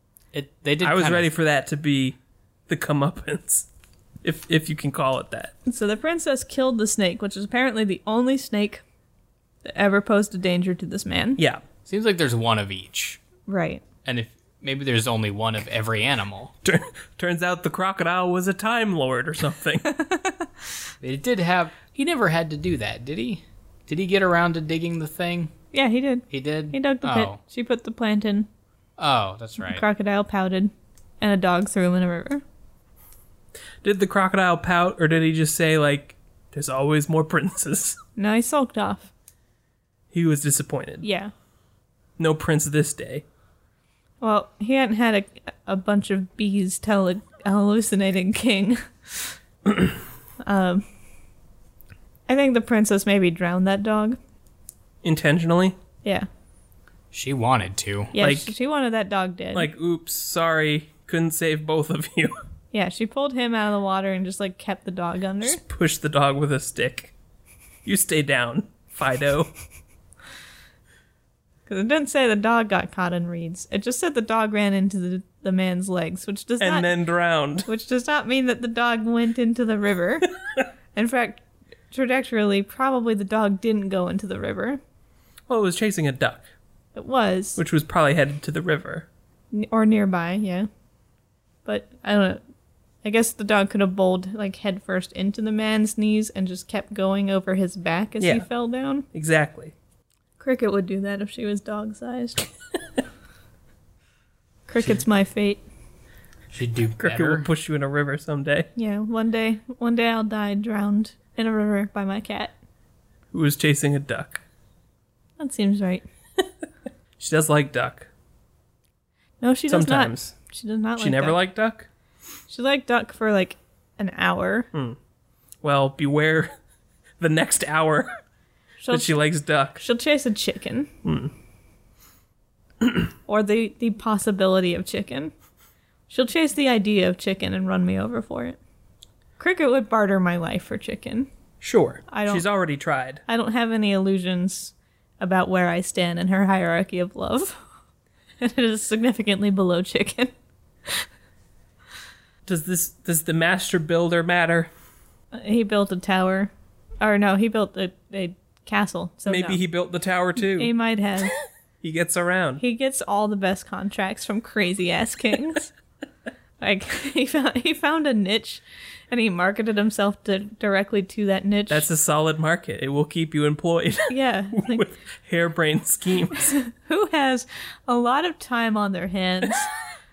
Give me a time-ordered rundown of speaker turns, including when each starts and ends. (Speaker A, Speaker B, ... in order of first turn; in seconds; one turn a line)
Speaker A: 0.3-1.3
Speaker B: 0.8-2.2
Speaker B: 2.7-3.7
Speaker B: 4.2-5.5
Speaker C: 5.7-8.8
Speaker C: 9.6-11.4
Speaker A: 11.9-13.2
Speaker C: 13.5-13.8
Speaker A: 14.1-16.5
Speaker B: 16.6-19.9
Speaker C: 19.9-20.5
Speaker A: 21.0-25.5
Speaker C: 25.7-28.5
Speaker A: 26.3-27.4
Speaker A: 29.0-29.8
Speaker C: 29.6-32.4
Speaker B: 33.8-38.0
Speaker C: 38.2-39.1
Speaker B: 40.1-41.0
Speaker C: 41.0-41.3
Speaker B: 42.2-43.2
Speaker C: 44.2-49.3
Speaker C: 50.5-50.9
Speaker C: 52.3-54.2
Speaker B: 55.0-55.8
Speaker A: 57.1-58.1
Speaker C: 58.1-59.7
Speaker B: 58.2-58.5
Speaker B: 59.5-62.4
Speaker C: 62.7-65.6
Speaker B: 65.4-67.1
Speaker B: 67.8-69.5
Speaker C: 71.7-76.9
Speaker B: 76.6-77.7
Speaker C: 77.7-80.3
Speaker C: 81.0-84.8
Speaker B: 85.5-86.5
Speaker C: 87.0-87.6
Speaker B: 87.6-89.1
Speaker C: 89.5-90.7
Speaker C: 91.7-92.4
Speaker C: 93.0-99.1
Speaker B: 98.2-98.5
Speaker B: 99.1-99.7
Speaker C: 100.4-102.5
Speaker C: 104.7-105.6
Speaker A: 106.5-107.5
Speaker B: 107.0-108.7
Speaker C: 108.8-112.5
Speaker B: 113.3-114.4
Speaker C: 115.4-116.0
Speaker B: 117.2-118.1
Speaker C: 119.4-121.4
Speaker B: 119.7-120.3
Speaker B: 121.0-121.9
Speaker C: 122.5-124.7
Speaker B: 125.6-126.5
Speaker B: 127.2-128.1
Speaker C: 128.8-129.2
Speaker B: 128.9-129.8
Speaker C: 129.8-130.9
Speaker B: 131.1-131.3
Speaker C: 133.3-135.3
Speaker C: 136.1-138.6
Speaker C: 139.4-141.3
Speaker B: 141.6-143.2
Speaker C: 142.1-142.4
Speaker C: 143.3-147.6
Speaker C: 148.4-150.3
Speaker B: 152.5-154.7
Speaker C: 155.3-159.6
Speaker B: 159.3-160.7
Speaker C: 160.4-161.3
Speaker B: 161.8-162.6
Speaker C: 162.6-165.7
Speaker C: 166.6-171.9
Speaker B: 171.7-176.5
Speaker C: 174.1-174.9
Speaker C: 176.5-179.7